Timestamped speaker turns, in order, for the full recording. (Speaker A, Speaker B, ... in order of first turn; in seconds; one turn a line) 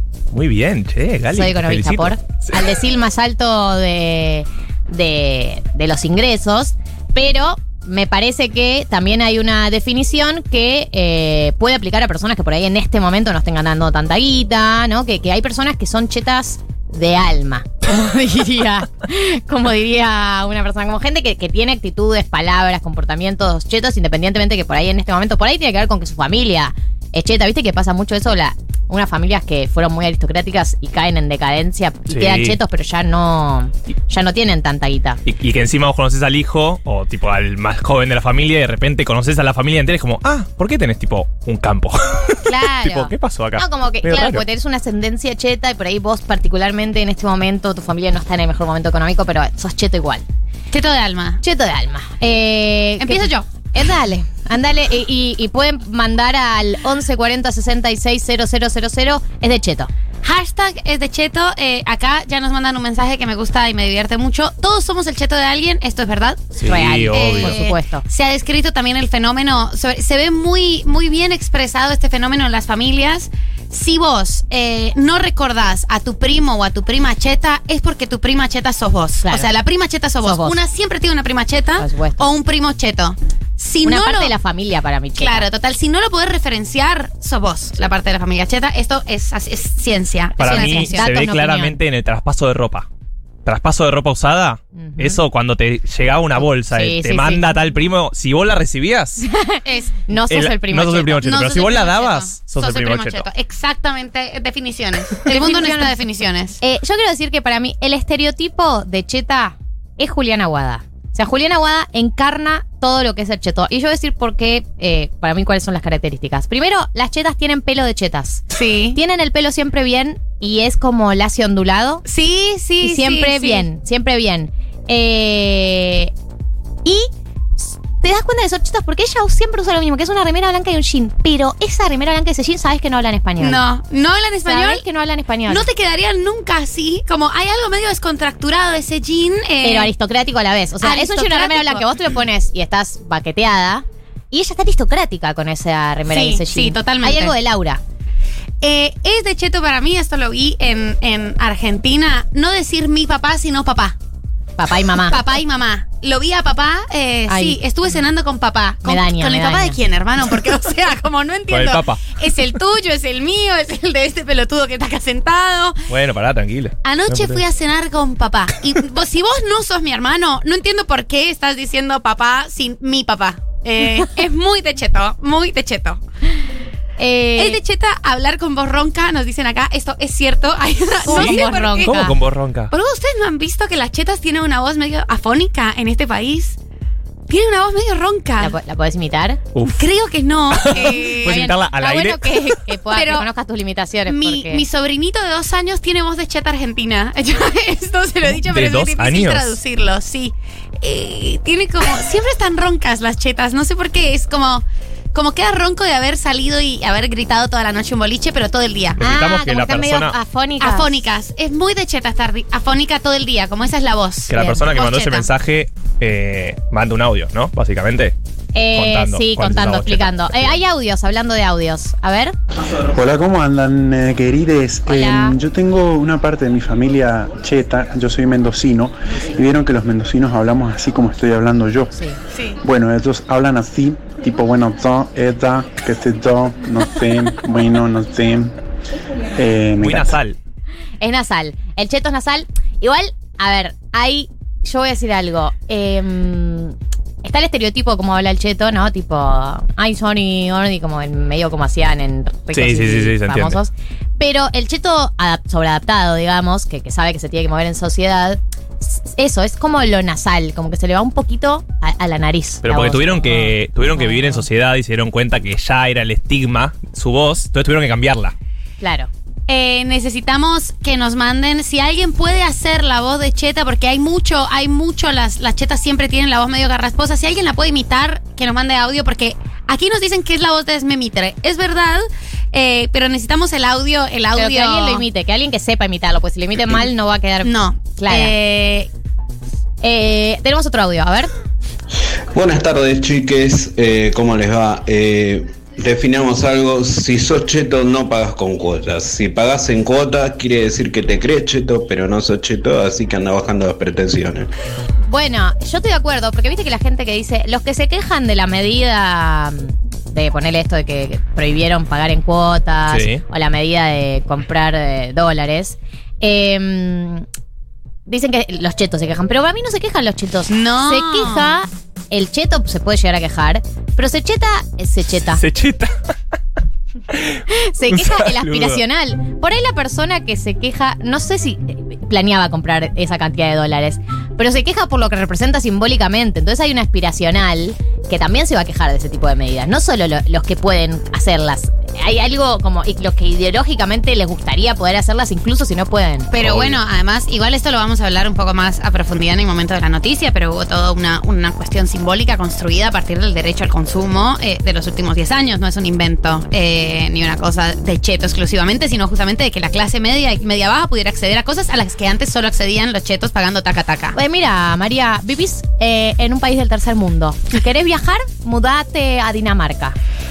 Speaker A: 0.3-2.1
Speaker B: 1.3-35.2
Speaker A: 32.1-32.6
Speaker A: 35.2-44.4
Speaker B: 42.5-50.2
Speaker C: 50.7-51.4
Speaker B: 51.4-59.9
Speaker C: 53.0-53.5
Speaker C: 60.2-66.5
Speaker A: 66.6-67.6
Speaker B: 66.6-68.0
Speaker C: 67.1-84.3
Speaker B: 79.2-79.5
Speaker B: 80.2-80.6
Speaker B: 81.8-82.3
Speaker B: 83.8-85.5
Speaker C: 85.2-91.1
Speaker A: 90.4-92.9
Speaker B: 90.4-91.8
Speaker A: 93.4-99.2
Speaker B: 94.8-95.2
Speaker B: 96.6-97.5
Speaker B: 99.2-101.2
Speaker C: 99.6-100.0
Speaker A: 100.3-103.3
Speaker C: 101.2-106.6
Speaker B: 105.2-106.0
Speaker B: 106.6-118.4
Speaker C: 118.5-119.0
Speaker B: 118.9-122.0
Speaker C: 122.0-123.7
Speaker B: 122.8-126.1
Speaker B: 126.8-133.6
Speaker C: 133.4-134.8
Speaker B: 134.4-135.7
Speaker C: 135.5-139.9
Speaker B: 139.6-147.8
Speaker C: 140.8-141.8
Speaker C: 146.1-147.3
Speaker C: 148.6-153.9
Speaker B: 154.6-155.2
Speaker C: 155.1-165.8
Speaker B: 157.3-157.6
Speaker B: 158.8-159.8
Speaker A: 161.5-162.0
Speaker A: 165.9-167.4
Speaker C: 166.8-176.0
Speaker B: 177.0-177.6
Speaker C: 177.4-182.1
Speaker B: 181.0-182.2
Speaker A: 181.1-182.7
Speaker C: 182.7-186.6
Speaker C: 187.3-188.5
Speaker B: 188.4-189.4
Speaker A: 189.5-189.8
Speaker C: 189.8-191.5
Speaker A: 190.5-192.6
Speaker B: 190.7-194.6
Speaker C: 192.9-193.2
Speaker C: 194.1-209.0
Speaker A: 198.5-199.6
Speaker A: 209.0-210.2
Speaker B: 209.0-211.0
Speaker C: 210.6-215.3
Speaker A: 214.3-218.1
Speaker B: 214.3-214.7
Speaker B: 218.5-222.3
Speaker A: 218.7-220.6
Speaker D: 222.9-231.9
Speaker B: 224.8-225.4
Speaker D: 232.6-238.5
Speaker D: 239.3-240.2
Speaker A: 239.8-240.4
Speaker B: 241.0-264.4
Speaker A: 252.5-253.6
Speaker A: 262.6-268.3
Speaker B: 268.8-269.1
Speaker C: 269.5-285.0
Speaker B: 284.3-288.3
Speaker C: 287.4-288.9
Speaker B: 289.8-291.3
Speaker E: 292.3-304.5
Speaker B: 305.1-317.2
Speaker A: 312.9-313.2
Speaker B: 318.1-325.4
Speaker C: 320.5-321.6
Speaker A: 325.3-326.1
Speaker A: 327.1-328.8
Speaker B: 327.5-346.3
Speaker C: 346.3-364.1
Speaker A: 346.4-346.8
Speaker B: 364.1-369.9